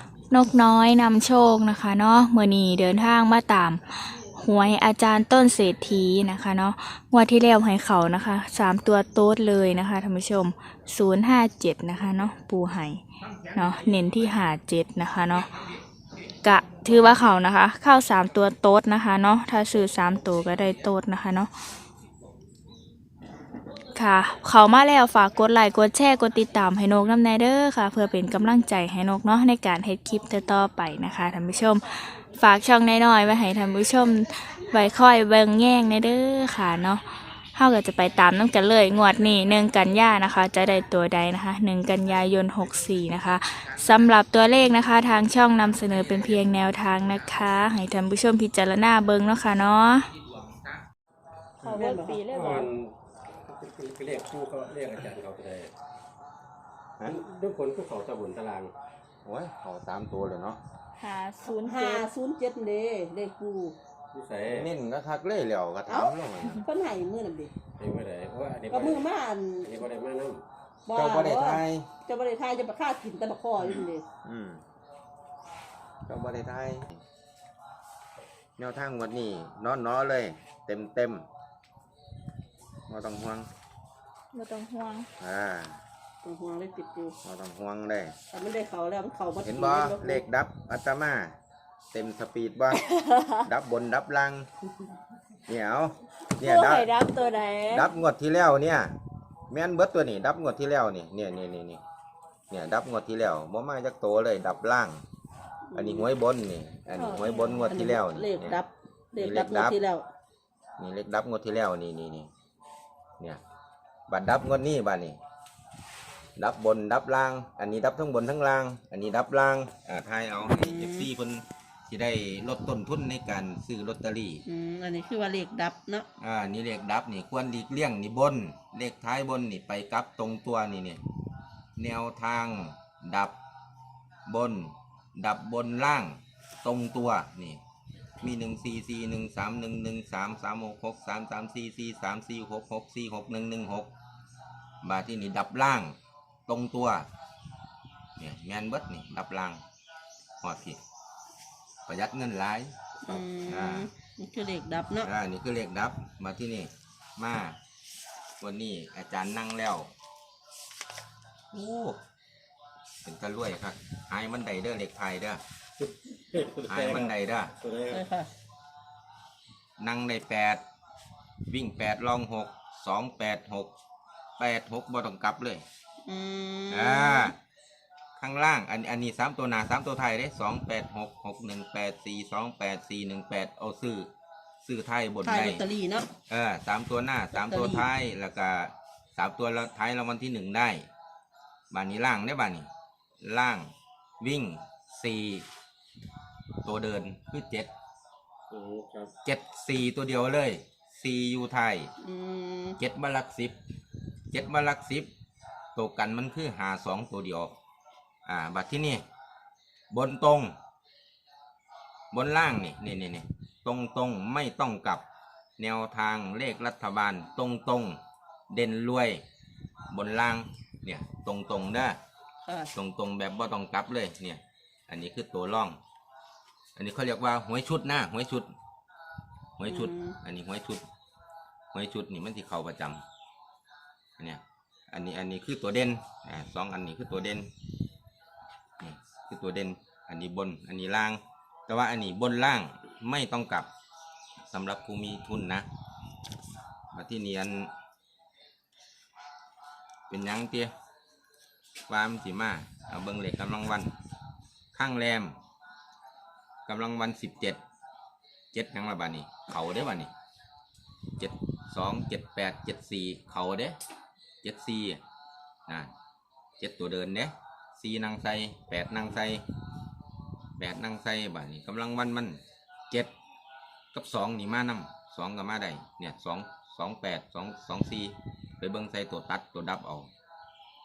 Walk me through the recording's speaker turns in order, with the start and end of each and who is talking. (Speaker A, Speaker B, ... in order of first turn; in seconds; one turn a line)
Speaker A: 0.3-13.0
Speaker B: 13.2-14.4
Speaker A: 13.5-15.5
Speaker B: 15.3-15.8
Speaker A: 16.4-21.5
Speaker B: 20.0-20.9
Speaker A: 23.9-37.0
Speaker A: 37.5-50.1
Speaker B: 42.5-47.4
Speaker B: 50.1-50.8
Speaker C: 51.6-52.2
Speaker A: 51.6-52.7
Speaker D: 52.3-52.9
Speaker D: 53.5-55.7
Speaker D: 57.0-58.7
Speaker B: 59.2-60.6
Speaker A: 61.0-62.0
Speaker C: 61.4-63.8
Speaker D: 64.1-64.7
Speaker B: 64.4-66.6
Speaker C: 65.9-67.5
Speaker D: 67.8-69.1
Speaker C: 68.7-69.8
Speaker D: 69.6-70.4
Speaker C: 70.8-74.0
Speaker B: 70.9-71.9
Speaker B: 73.6-74.6
Speaker B: 76.1-77.0
Speaker B: 78.6-81.2
Speaker B: 82.9-83.5
Speaker A: 84.3-85.1
Speaker B: 85.2-85.8
Speaker C: 86.2-87.2
Speaker B: 87.2-88.1
Speaker C: 88.3-90.2
Speaker B: 89.4-91.3
Speaker B: 91.9-92.8
Speaker B: 93.4-94.5
Speaker B: 95.5-97.0
Speaker C: 96.3-97.9
Speaker A: 97.0-97.4
Speaker B: 97.7-99.0
Speaker B: 99.5-101.8
Speaker B: 102.5-105.0
Speaker C: 105.7-106.1
Speaker B: 105.7-108.6
Speaker A: 107.0-107.7
Speaker C: 107.6-110.0
Speaker B: 109.2-109.8
Speaker B: 110.8-112.3
Speaker B: 114.1-115.2
Speaker B: 116.4-124.4
Speaker C: 120.4-121.1
Speaker C: 124.5-126.1
Speaker B: 126.2-131.0
Speaker B: 131.8-133.3
Speaker B: 134.2-137.6
Speaker B: 138.2-143.9
Speaker B: 144.8-145.9
Speaker B: 146.5-147.1
Speaker B: 148.2-149.6
Speaker B: 150.4-150.8
Speaker B: 151.9-153.9
Speaker C: 153.0-155.1
Speaker B: 155.0-157.6
Speaker B: 158.4-159.9
Speaker B: 161.5-162.0
Speaker B: 163.0-165.4
Speaker D: 165.8-168.1
Speaker B: 166.7-167.5
Speaker C: 167.9-168.3
Speaker B: 169.8-170.6
Speaker B: 171.5-173.7
Speaker B: 174.4-175.6
Speaker C: 176.0-177.3
Speaker B: 176.7-177.3
Speaker B: 178.2-184.1
Speaker B: 184.6-185.6
Speaker C: 185.2-186.1
Speaker B: 186.3-190.9
Speaker C: 187.3-187.8
Speaker B: 191.7-192.7
Speaker B: 193.2-195.4
Speaker B: 196.6-197.7
Speaker D: 198.5-199.1
Speaker B: 199.2-201.9
Speaker C: 202.0-202.8
Speaker B: 202.8-203.6
Speaker B: 204.3-205.1
Speaker B: 205.7-207.5
Speaker B: 208.2-209.0
Speaker B: 209.9-210.5
Speaker B: 212.1-215.0
Speaker B: 215.6-218.0
Speaker B: 218.5-219.2
Speaker B: 219.9-222.0
Speaker C: 222.4-222.7
Speaker B: 222.7-225.8
Speaker B: 226.8-228.5
Speaker B: 229.6-230.8
Speaker C: 229.7-230.2
Speaker B: 231.7-233.0
Speaker B: 234.2-237.5
Speaker B: 238.8-243.7
Speaker B: 244.5-245.7
Speaker B: 246.9-247.7
Speaker B: 250.1-250.7
Speaker B: 251.9-253.9
Speaker B: 254.7-255.4
Speaker B: 256.7-257.6
Speaker B: 258.5-260.1
Speaker B: 261.2-263.8
Speaker B: 264.4-265.0
Speaker B: 266.6-269.4
Speaker B: 270.6-273.1
Speaker B: 273.9-280.1